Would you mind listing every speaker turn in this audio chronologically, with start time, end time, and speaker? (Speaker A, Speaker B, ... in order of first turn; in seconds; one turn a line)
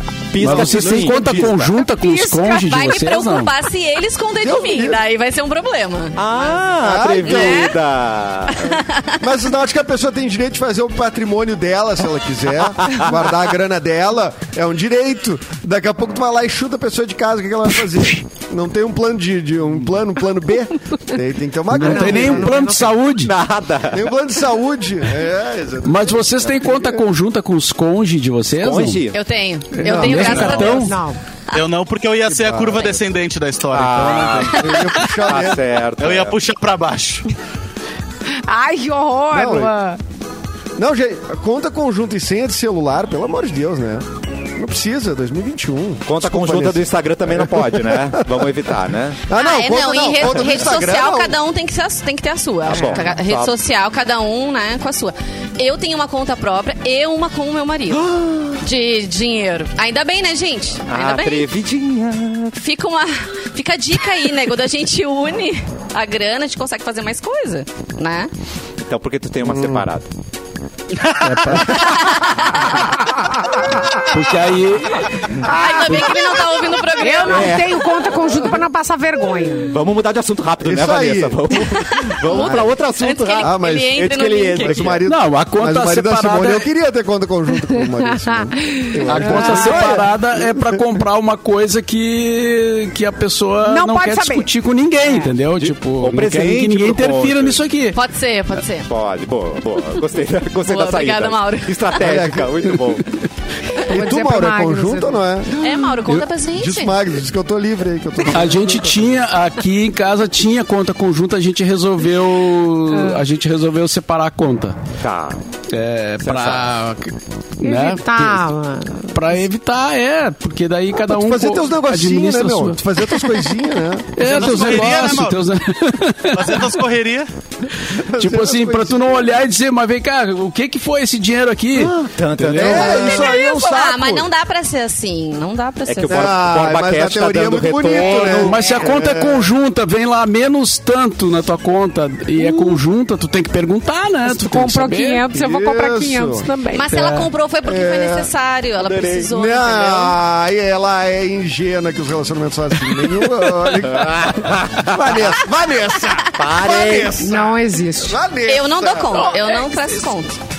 Speaker A: 0.3-1.7
Speaker B: 0.4-3.5
Speaker C: 0.4-1.6
Speaker D: 2.0-2.5
Speaker E: 2.3-6.6
Speaker C: 4.4-5.0
Speaker A: 6.2-8.8
Speaker C: 6.8-7.7
Speaker E: 7.2-7.8
Speaker E: 8.5-9.2
Speaker C: 9.2-22.5
Speaker B: 21.7-23.3
Speaker D: 21.8-23.0
Speaker A: 23.2-24.1
Speaker C: 23.9-27.0
Speaker B: 25.8-29.0
Speaker A: 28.6-29.2
Speaker E: 29.1-30.9
Speaker B: 29.7-30.9
Speaker C: 29.8-30.5
Speaker A: 30.1-30.9
Speaker F: 30.2-30.6
Speaker D: 30.7-31.2
Speaker F: 31.5-34.7
Speaker C: 32.3-32.9
Speaker A: 33.7-36.4
Speaker C: 34.5-35.6
Speaker F: 36.0-37.2
Speaker D: 38.4-40.0
Speaker C: 39.3-39.7
Speaker C: 40.8-48.7
Speaker A: 46.0-49.2
Speaker C: 49.2-51.4
Speaker E: 49.3-61.5
Speaker A: 52.6-53.5
Speaker C: 58.1-58.6
Speaker A: 60.9-62.5
Speaker E: 62.5-68.3
Speaker A: 68.8-70.1
Speaker C: 69.4-69.9
Speaker B: 71.2-71.7
Speaker C: 71.3-71.9
Speaker E: 71.7-72.7
Speaker B: 74.1-75.1
Speaker E: 75.4-77.7
Speaker D: 75.5-76.1
Speaker D: 76.9-79.8
Speaker A: 77.2-77.7
Speaker A: 79.6-85.0
Speaker C: 80.6-82.7
Speaker E: 81.5-85.0
Speaker C: 83.4-90.9
Speaker B: 85.0-86.7
Speaker D: 88.3-89.9
Speaker B: 89.0-98.0
Speaker D: 93.6-94.5
Speaker D: 95.0-95.3
Speaker A: 95.6-97.6
Speaker E: 97.9-98.9
Speaker A: 98.8-103.1
Speaker E: 100.6-102.0
Speaker C: 102.0-102.8
Speaker D: 103.8-105.2
Speaker C: 103.9-109.0
Speaker E: 105.6-107.0
Speaker B: 108.3-114.8
Speaker D: 112.9-113.2
Speaker A: 115.0-115.4
Speaker B: 115.7-118.5
Speaker A: 116.2-116.7
Speaker D: 117.6-119.4
Speaker B: 119.1-122.8
Speaker C: 121.0-124.9
Speaker B: 124.1-126.7
Speaker F: 124.2-125.4
Speaker F: 126.3-127.3
Speaker C: 127.9-129.4
Speaker B: 128.0-132.9
Speaker C: 131.8-134.3
Speaker A: 132.0-133.3
Speaker E: 132.8-136.4
Speaker A: 135.8-138.6
Speaker C: 136.1-139.5
Speaker B: 138.3-145.3
Speaker D: 142.4-142.8
Speaker D: 144.2-146.9
Speaker C: 145.3-146.5
Speaker E: 146.7-150.2
Speaker C: 147.6-148.3
Speaker A: 148.8-149.3
Speaker C: 149.3-159.4
Speaker A: 153.8-155.4
Speaker A: 156.3-157.3
Speaker D: 157.2-158.2
Speaker E: 158.4-160.4